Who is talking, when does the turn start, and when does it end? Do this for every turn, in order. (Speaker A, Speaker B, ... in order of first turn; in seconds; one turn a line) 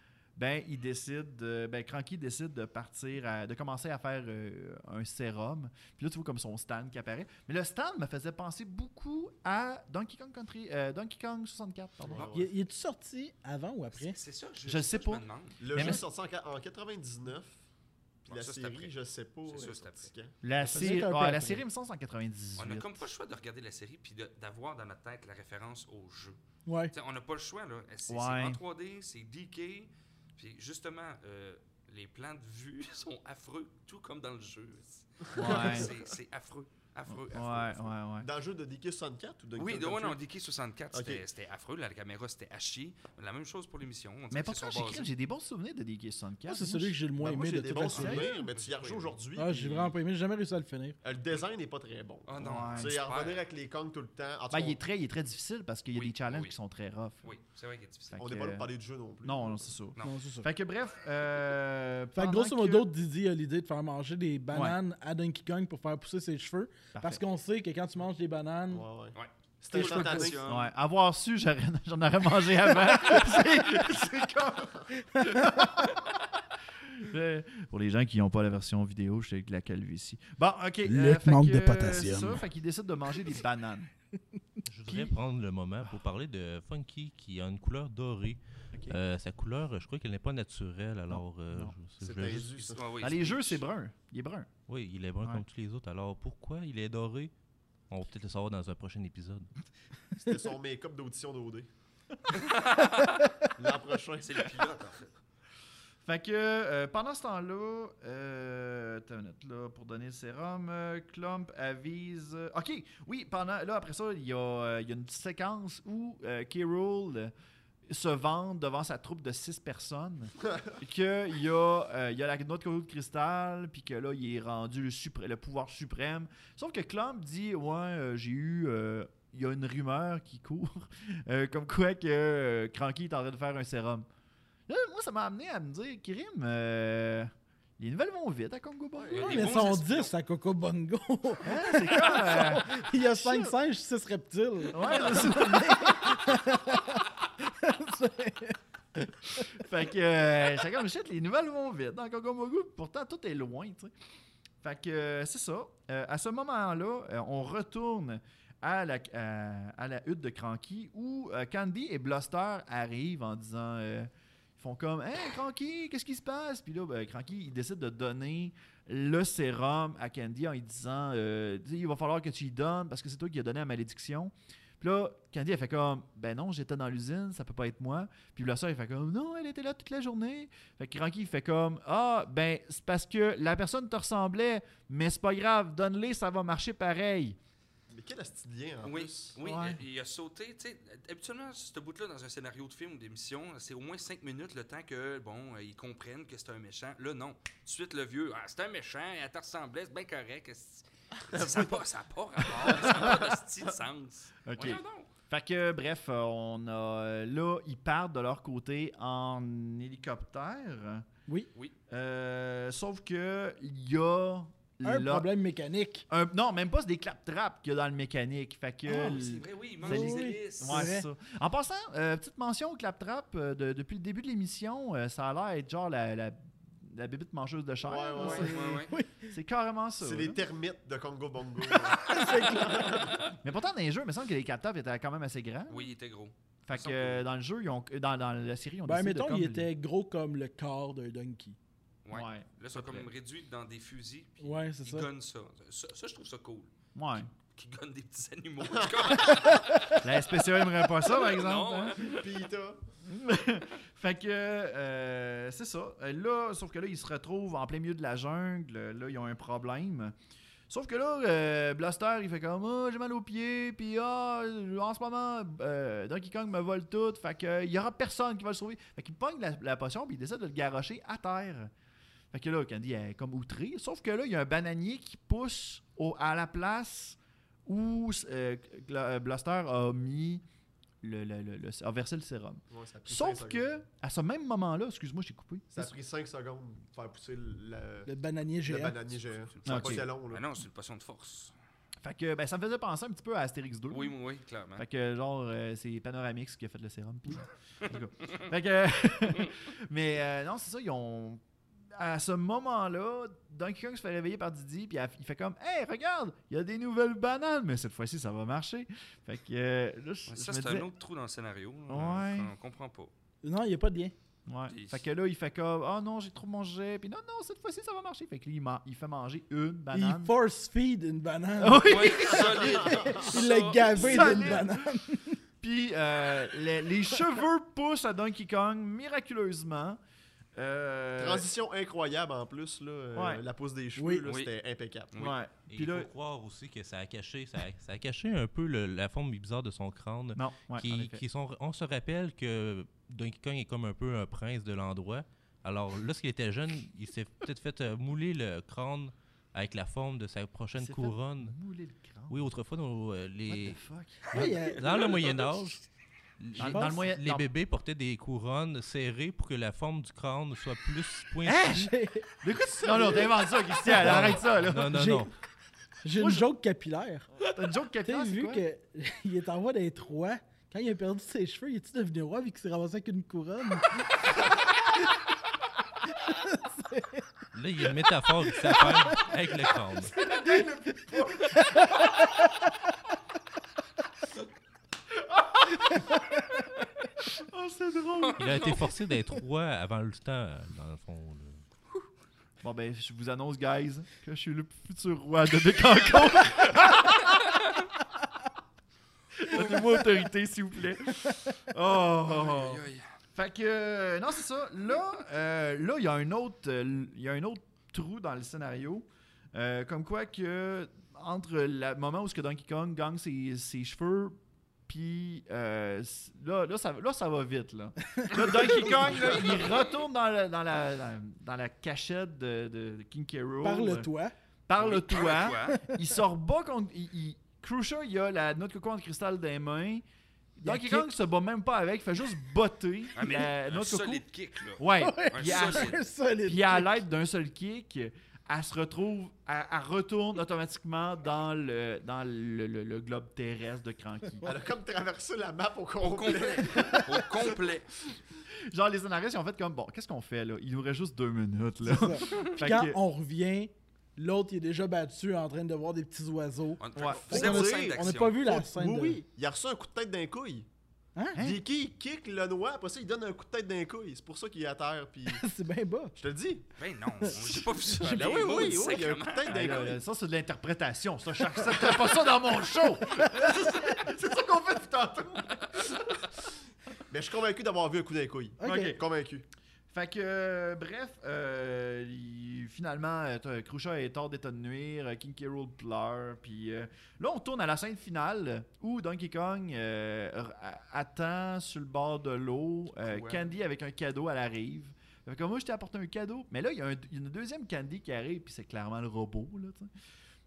Speaker A: 0.4-12.3
Speaker B: 12.0-12.5
Speaker C: 12.1-12.4
Speaker D: 12.3-14.2
Speaker C: 13.9-15.8
Speaker A: 14.7-16.0
Speaker B: 15.6-17.6
Speaker C: 18.2-18.9
Speaker B: 18.3-20.4
Speaker C: 19.4-20.1
Speaker A: 20.4-23.0
Speaker D: 20.6-21.6
Speaker C: 22.6-26.4
Speaker D: 26.6-26.9
Speaker C: 26.9-37.9
Speaker A: 28.1-28.6
Speaker A: 35.3-35.9
Speaker B: 35.4-36.1
Speaker A: 37.1-38.3
Speaker B: 38.2-40.2
Speaker C: 39.6-45.1
Speaker B: 40.9-41.2
Speaker A: 44.3-47.0
Speaker D: 46.5-48.3
Speaker B: 47.2-50.0
Speaker A: 47.8-48.2
Speaker C: 48.2-49.1
Speaker D: 49.4-51.0
Speaker B: 51.0-54.8
Speaker C: 52.3-53.4
Speaker A: 52.4-53.0
Speaker A: 54.5-57.3
Speaker C: 55.9-56.5
Speaker C: 57.2-58.2
Speaker A: 58.1-58.7
Speaker B: 58.2-59.7
Speaker A: 59.2-62.9
Speaker D: 60.0-60.5
Speaker D: 62.1-68.8
Speaker A: 64.5-64.8
Speaker A: 66.9-67.2
Speaker B: 68.7-70.5
Speaker C: 69.1-70.7
Speaker A: 69.8-76.1
Speaker D: 75.2-75.7
Speaker A: 76.8-83.9
Speaker D: 80.9-82.4
Speaker E: 84.7-92.5
Speaker A: 84.8-85.2
Speaker A: 91.1-91.8
Speaker B: 92.0-93.1
Speaker C: 92.4-93.6
Speaker A: 93.0-94.5
Speaker E: 94.7-97.3
Speaker E: 97.9-99.5
Speaker B: 100.2-101.7
Speaker C: 102.3-103.2
Speaker B: 103.6-104.8
Speaker C: 104.2-105.1
Speaker A: 106.0-117.3
Speaker A: 117.9-134.1
Speaker A: 134.7-139.4
Speaker B: 139.0-139.5
Speaker C: 139.1-140.1
Speaker D: 139.2-149.4
Speaker A: 141.4-143.6
Speaker A: 144.7-146.3
Speaker A: 149.3-153.9
Speaker A: 154.6-187.4
Speaker B: 187.9-189.3
Speaker C: 188.8-205.1
Speaker A: 189.4-189.8
Speaker B: 201.3-201.8
Speaker B: 202.5-203.3
Speaker A: 204.4-211.0
Speaker A: 211.9-215.3
Speaker D: 214.8-216.1
Speaker A: 216.1-230.4
Speaker D: 218.9-219.2
Speaker C: 218.9-220.9
Speaker D: 219.8-221.1
Speaker B: 227.8-228.6
Speaker C: 228.2-228.9
Speaker D: 228.8-229.3
Speaker B: 230.0-233.2
Speaker D: 231.9-233.1
Speaker A: 233.4-235.9
Speaker C: 235.7-237.2
Speaker A: 236.7-239.7
Speaker D: 238.8-241.6
Speaker C: 242.0-250.0
Speaker A: 242.1-243.1
Speaker D: 244.4-245.1
Speaker A: 246.9-247.3
Speaker B: 248.7-249.1
Speaker A: 249.9-252.1
Speaker C: 251.0-252.3
Speaker B: 252.1-252.8
Speaker A: 253.1-260.1
Speaker A: 260.7-271.7
Speaker A: 272.3-280.4
Speaker A: 281.0-285.9
Speaker B: 282.7-283.7
Speaker B: 285.7-288.1
Speaker D: 288.1-289.0
Speaker B: 288.6-290.4
Speaker C: 289.5-291.5
Speaker A: 289.6-290.1
Speaker A: 292.0-294.1
Speaker C: 293.9-294.8
Speaker A: 294.8-301.4
Speaker A: 301.9-310.9
Speaker C: 310.3-313.1
Speaker A: 311.9-312.5
Speaker D: 313.4-314.1
Speaker A: 314.5-320.3
Speaker C: 314.7-315.0
Speaker D: 319.9-322.4
Speaker A: 321.6-322.9
Speaker C: 321.8-324.6
Speaker B: 322.4-323.2
Speaker D: 323.0-325.4
Speaker A: 324.0-324.9
Speaker A: 325.6-330.0
Speaker A: 330.6-331.5
Speaker B: 331.2-335.1
Speaker A: 333.1-333.4
Speaker D: 334.0-334.2
Speaker C: 334.2-334.5
Speaker A: 335.2-336.1
Speaker E: 335.7-351.5
Speaker A: 340.4-341.2
Speaker A: 350.8-352.5
Speaker E: 352.3-355.8
Speaker A: 353.5-354.5
Speaker D: 354.3-355.1
Speaker C: 354.9-355.4
Speaker E: 356.4-361.8
Speaker A: 356.5-357.5
Speaker D: 356.7-357.0
Speaker A: 361.4-365.0
Speaker D: 361.7-362.3
Speaker B: 362.9-363.2
Speaker E: 363.9-365.3
Speaker D: 364.9-365.3
Speaker D: 366.0-367.3
Speaker A: 366.1-366.4
Speaker A: 367.4-368.6
Speaker D: 368.1-374.5
Speaker D: 376.1-377.3
Speaker E: 377.5-380.2
Speaker D: 378.6-379.2
Speaker A: 380.1-382.1
Speaker D: 380.3-382.4
Speaker A: 385.2-386.2
Speaker A: 387.2-388.8
Speaker C: 388.2-388.9
Speaker E: 388.4-391.6
Speaker A: 392.6-397.7
Speaker A: 399.3-402.8
Speaker C: 402.2-403.1
Speaker A: 403.3-424.1
Speaker D: 418.2-419.0
Speaker C: 419.1-419.7
Speaker D: 423.6-424.3
Speaker A: 424.7-430.0
Speaker C: 424.8-425.8
Speaker D: 425.7-426.0
Speaker A: 430.6-434.2
Speaker D: 430.6-431.1
Speaker C: 433.1-436.0
Speaker A: 434.8-444.4
Speaker D: 435.0-437.0
Speaker B: 444.4-447.7
Speaker C: 446.0-447.9
Speaker A: 448.7-453.0
Speaker D: 451.8-459.2
Speaker C: 456.8-458.4
Speaker A: 456.9-457.2
Speaker B: 457.1-460.7
Speaker A: 461.4-461.6
Speaker B: 461.4-465.4
Speaker D: 465.3-466.1
Speaker B: 466.1-466.6
Speaker C: 466.8-469.9
Speaker D: 467.2-468.8
Speaker B: 468.0-470.0
Speaker A: 469.5-475.8
Speaker B: 477.1-479.4
Speaker D: 478.6-478.9
Speaker A: 478.6-479.0
Speaker A: 479.9-499.9
Speaker B: 493.1-493.4